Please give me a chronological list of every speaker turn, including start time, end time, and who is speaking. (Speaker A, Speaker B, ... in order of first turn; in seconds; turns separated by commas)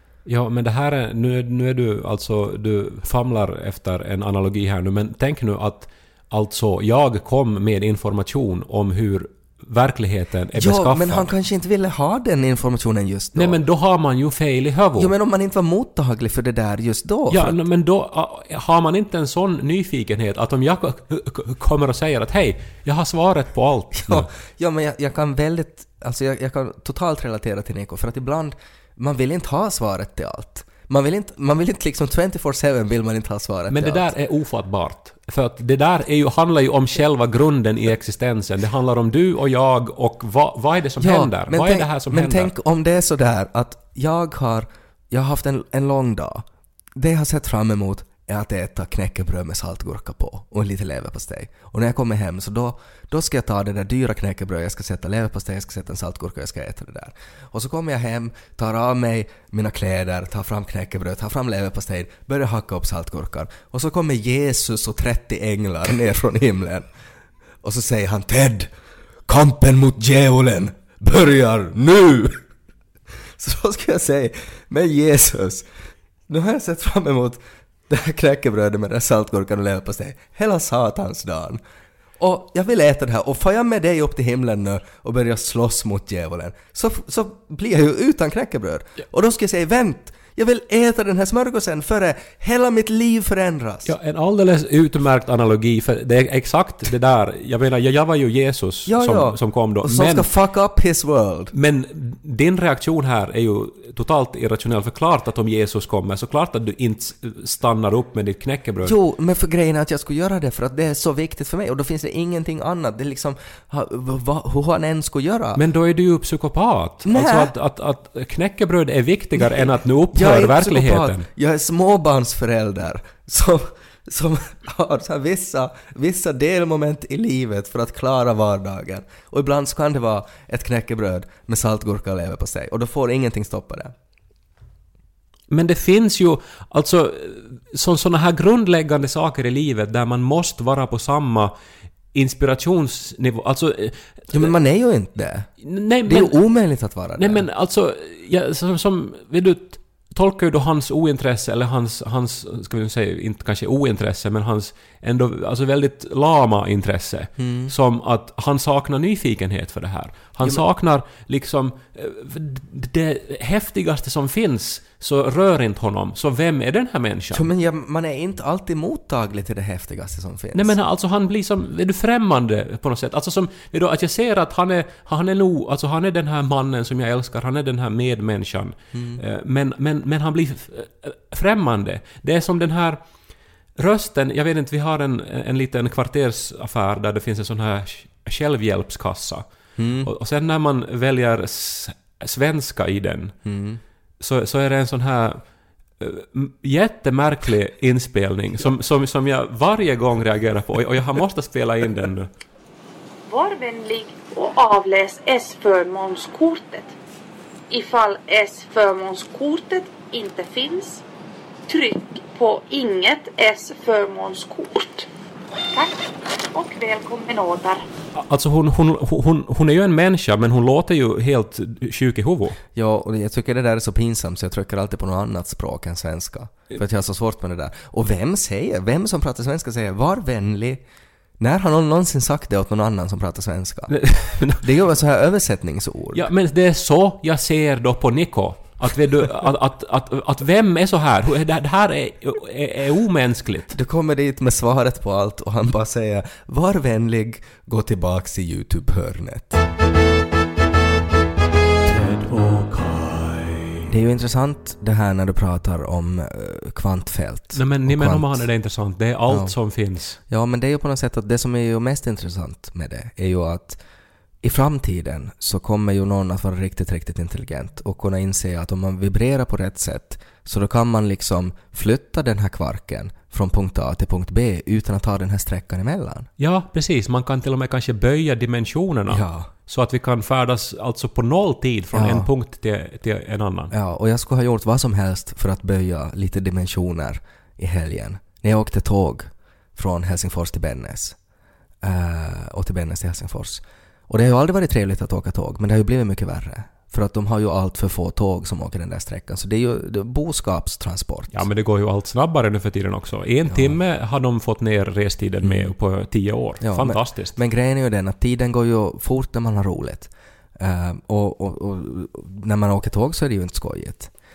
Speaker A: 0.2-11.3, Speaker B: 10.6-13.6, Speaker A: 13.3-15.1, Speaker B: 15.0-17.6, Speaker A: 17.3-24.3, Speaker B: 24.1-34.1, Speaker A: 33.7-42.5, Speaker B: 41.0-46.4, Speaker B: 47.0-66.9, Speaker B: 67.6-68.7, Speaker B: 69.2-72.4, Speaker B: 73.4-75.7, Speaker B: 76.3-81.6, Speaker B: 82.2-93.9, Speaker A: 93.9-100.3, Speaker B: 98.9-101.5, Speaker A: 101.5-108.9, Speaker B: 108.8-115.6, Speaker A: 115.6-121.2, Speaker B: 117.0-117.5, Speaker B: 119.4-133.9, Speaker A: 135.5-141.5, Speaker A: 142.1-144.5, Speaker B: 144.3-145.5, Speaker A: 145.6-146.4, Speaker B: 146.1-147.4, Speaker A: 147.2-167.4, Speaker B: 157.4-157.7, Speaker B: 167.3-170.7, Speaker A: 170.6-183.0, Speaker B: 178.9-179.2, Speaker A: 183.8-189.4, Speaker B: 189.8-190.1, Speaker A: 190.0-193.4, Speaker B: 193.4-193.8, Speaker A: 194.2-195.4, Speaker A: 196.0-202.3, Speaker C: 203.2-206.9, Speaker C: 207.7-211.0, Speaker C: 211.7-215.1, Speaker C: 215.7-217.8, Speaker A: 218.2-222.6, Speaker B: 222.7-230.8, Speaker B: 231.4-233.9, Speaker A: 233.9-234.6, Speaker B: 234.5-236.3, Speaker A: 236.1-243.7, Speaker B: 243.7-249.6, Speaker A: 251.8-253.9, Speaker B: 253.9-258.4, Speaker A: 257.6-260.2, Speaker B: 259.3-259.6, Speaker B: 260.3-263.8, Speaker B: 264.4-276.3, Speaker A: 276.4-283.7, Speaker B: 279.1-279.5, Speaker B: 281.9-282.3, Speaker B: 283.7-291.2, Speaker B: 291.8-301.4, Speaker A: 301.3-307.4, Speaker B: 303.5-303.7, Speaker B: 305.4-305.7, Speaker B: 306.6-314.1